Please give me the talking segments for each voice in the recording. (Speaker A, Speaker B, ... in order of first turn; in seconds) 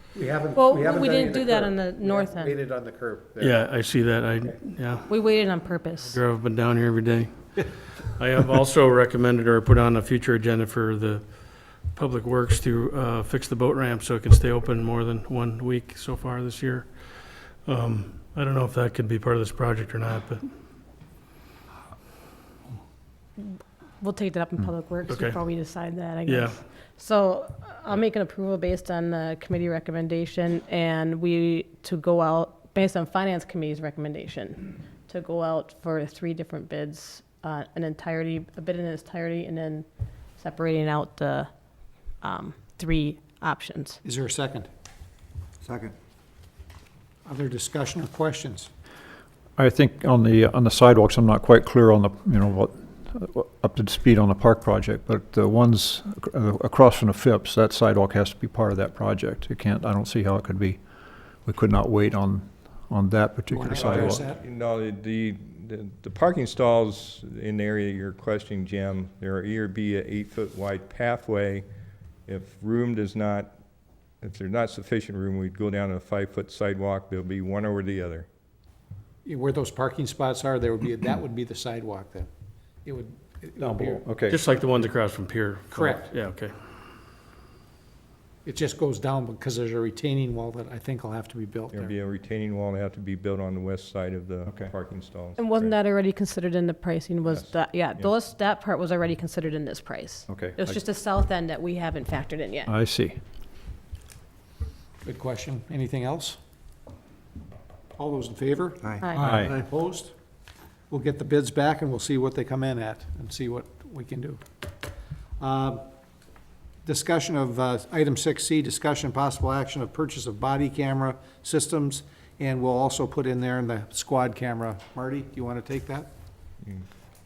Speaker A: 0.1-3.6, 44.0-44.7, 47.2-48.7, 63.5-64.4, 79.2-82.3, 82.8-84.0, 85.7-86.1, 88.4-91.9, 105.0-106.4, 108.0-110.1, 110.9-114.4, 115.4-115.8, 116.8-126.1
Speaker B: 0.5-2.6, 5.1-6.2, 24.0-39.9, 40.4-41.5, 42.2-44.0, 95.4-102.7, 109.0-109.4
Speaker C: 3.4-5.1, 6.0-20.4, 25.1-25.4, 26.2-26.6, 84.3-86.5
Speaker D: 49.6-60.8, 61.4-64.2, 83.6-84.4, 94.5-94.7, 100.3-100.7, 102.7-103.2, 109.2-109.5
Speaker E: 63.7-71.7, 72.3-73.5, 74.2-78.3, 91.7-95.8, 97.2-98.1